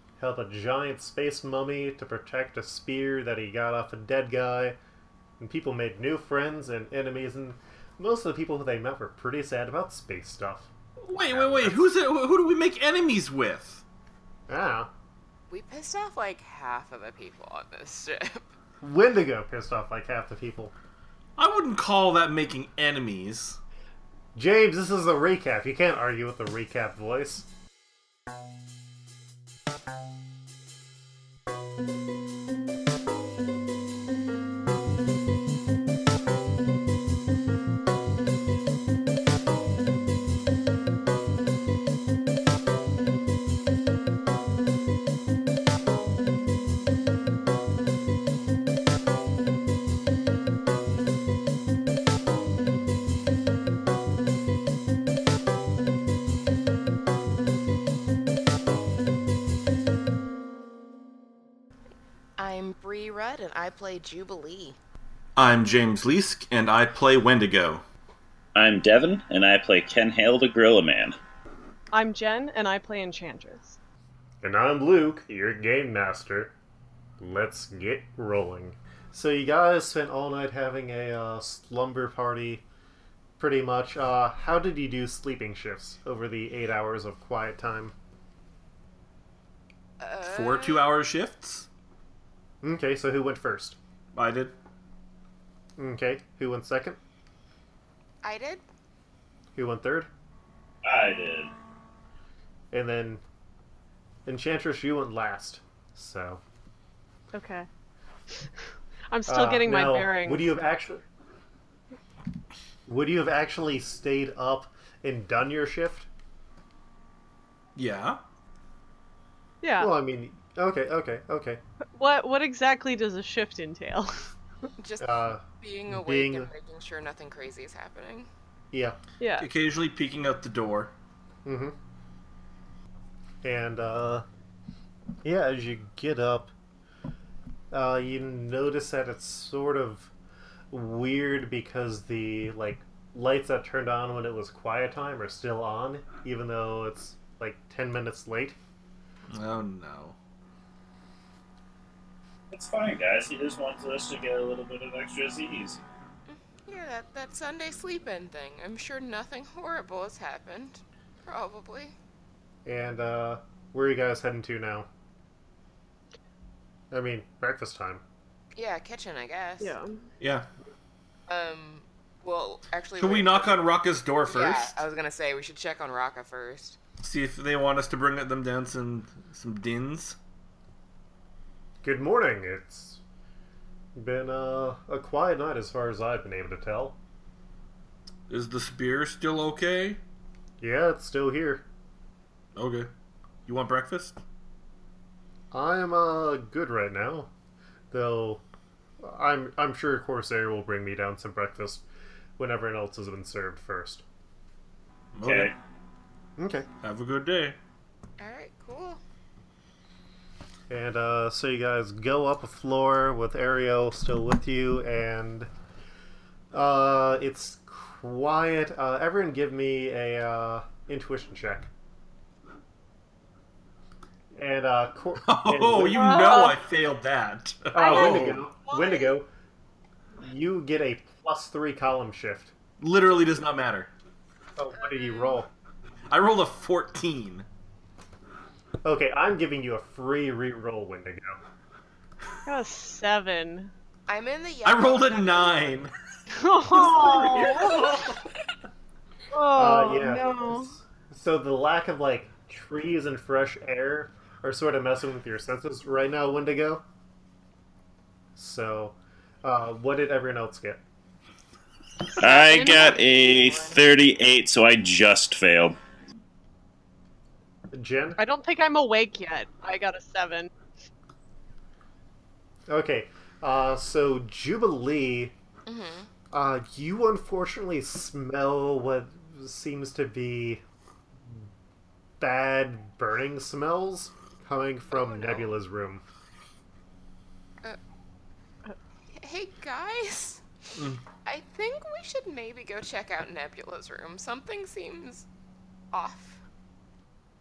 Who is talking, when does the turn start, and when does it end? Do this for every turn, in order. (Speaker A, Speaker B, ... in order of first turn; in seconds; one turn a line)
Speaker A: 0.2-4.8
Speaker A: 5.4-11.9
Speaker B: 11.0-13.8
Speaker A: 14.5-14.9
Speaker C: 15.5-18.5
Speaker A: 18.8-20.7
Speaker B: 21.4-23.6
Speaker A: 24.3-27.4
Speaker C: 62.4-64.8
Speaker B: 65.4-67.8
Speaker D: 68.5-71.2
Speaker E: 71.9-73.8
Speaker A: 74.4-76.5
Speaker A: 77.2-82.6
Speaker A: 83.4-87.9
Speaker C: 90.0-90.8
Speaker B: 90.2-91.7
Speaker A: 92.6-93.8
Speaker B: 94.1-94.5
Speaker A: 95.8-97.0
Speaker C: 98.2-98.6
Speaker A: 99.5-100.1
Speaker D: 100.8-101.5
Speaker A: 102.7-103.2
Speaker A: 104.2-106.4
Speaker E: 107.3-107.7
Speaker E: 109.1-110.5
Speaker A: 109.3-111.0
Speaker A: 112.9-116.1
Speaker B: 117.8-118.2
Speaker E: 119.6-119.9
Speaker A: 119.8-121.6
Speaker E: 121.9-124.3
Speaker C: 124.8-128.3
Speaker A: 125.0-126.5
Speaker A: 128.7-129.0
Speaker E: 129.2-129.5
Speaker B: 129.4-130.9
Speaker A: 131.4-131.7
Speaker A: 133.4-134.2
Speaker A: 135.2-136.5
Speaker A: 137.7-140.1
Speaker A: 140.7-148.6
Speaker B: 149.3-150.2
Speaker D: 152.5-155.8
Speaker C: 156.3-161.9
Speaker A: 162.7-164.9
Speaker A: 166.9-168.0
Speaker C: 168.5-169.8
Speaker E: 169.6-170.0
Speaker B: 170.2-170.5
Speaker C: 171.3-173.6
Speaker B: 172.9-174.8
Speaker C: 174.2-176.8
Speaker B: 177.0-180.2
Speaker A: 181.8-183.0
Speaker A: 183.9-187.0
Speaker B: 188.3-190.0
Speaker A: 190.6-191.7
Speaker B: 192.6-192.9
Speaker B: 193.4-194.2
Speaker A: 195.5-197.3
Speaker A: 197.9-198.4
Speaker A: 199.0-201.8
Speaker A: 202.4-204.0
Speaker B: 205.1-205.5
Speaker D: 205.2-205.5
Speaker A: 206.4-206.7
Speaker B: 206.8-207.6
Speaker C: 208.2-209.0
Speaker A: 210.7-215.5
Speaker A: 216.5-221.7
Speaker A: 224.3-226.4
Speaker B: 225.2-228.4
Speaker E: 225.9-226.6
Speaker A: 227.7-229.3
Speaker E: 227.8-228.3
Speaker C: 228.6-229.2
Speaker A: 230.2-232.5
Speaker B: 232.8-233.9
Speaker A: 234.6-235.5
Speaker C: 234.8-235.4
Speaker B: 236.1-237.4
Speaker A: 238.8-241.4
Speaker E: 242.4-243.7
Speaker C: 244.1-245.9
Speaker B: 244.6-245.9
Speaker E: 246.3-247.9
Speaker B: 246.7-248.2
Speaker E: 249.3-250.7
Speaker A: 249.5-256.8
Speaker A: 258.4-260.8
Speaker C: 262.1-263.8
Speaker D: 262.2-265.8
Speaker A: 267.7-268.2
Speaker E: 268.2-270.5
Speaker A: 272.7-275.3
Speaker C: 275.6-276.1
Speaker A: 276.3-280.6
Speaker A: 282.2-286.0
Speaker C: 284.9-285.5
Speaker C: 289.1-290.4
Speaker B: 290.8-291.0
Speaker C: 291.2-295.3
Speaker C: 295.9-296.4